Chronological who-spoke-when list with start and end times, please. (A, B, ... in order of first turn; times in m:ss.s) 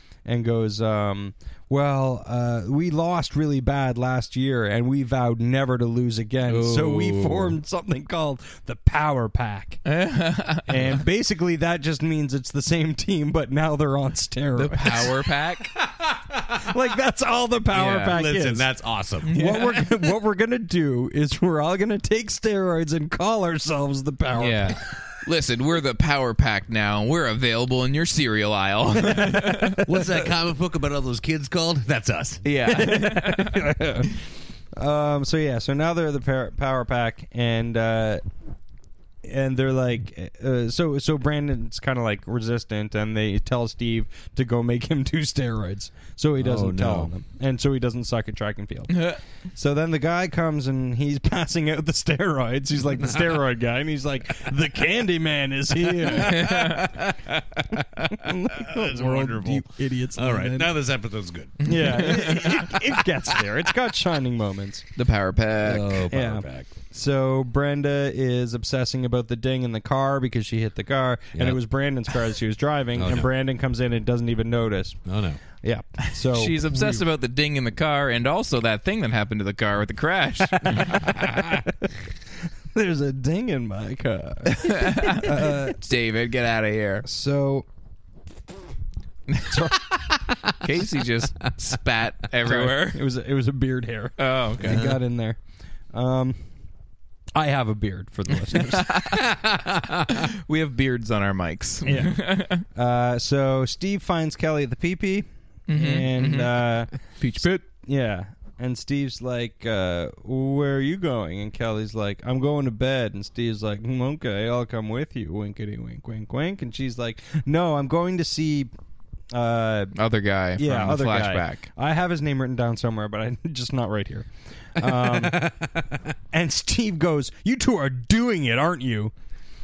0:00.2-0:09.8 A
0:06.5-0:07.6 B
0:09.8-0:11.0 C
0:10.7-0:15.3 A
0:14.6-0:15.7 C
0:16.5-0:18.7 A
0:17.7-0:18.1 C
0:18.1-0:19.3 B
0:19.2-0:19.8 C
0:19.3-0:24.8 A
0:24.4-0:29.8 C
0:29.1-0:30.0 A
0:29.8-0:32.8 B
0:32.4-0:33.6 C
0:32.7-0:34.1 A
0:34.7-0:38.2 A
0:39.2-0:56.9 A
0:46.4-0:47.1 B
0:48.9-0:49.2 C
0:56.0-1:02.3 B
0:56.1-0:56.9 C
0:58.1-1:00.7 A
1:01.6-1:02.7 C
1:01.6-1:04.8 A
1:05.0-1:06.0 C
1:05.6-1:06.7 B
1:06.1-1:15.0 A
1:11.3-1:11.6 B
1:12.9-1:13.3 B
1:15.1-1:15.4 B
1:15.6-1:17.0 A
1:16.2-1:21.3 C
1:20.6-1:21.9 A
1:22.7-1:25.8 A
1:24.6-1:27.0 C
1:27.0-1:27.6 A
1:29.5-1:30.0 A
1:30.6-1:33.0 C
1:32.4-1:35.4 A
1:34.2-1:34.8 C
1:34.6-1:35.0 B
1:35.9-1:36.4 A
1:37.3-1:39.0 A
1:38.5-1:39.3 C
1:39.1-1:40.1 B
1:40.1-1:42.6 C
1:41.8-1:46.9 A
1:45.7-1:46.5 C
1:47.2-1:47.6 C
1:47.6-1:58.7 A
1:59.3-1:59.9 A
1:59.9-2:01.6 C
2:00.6-2:05.5 A
2:04.8-2:06.1 B
2:06.3-2:09.1 A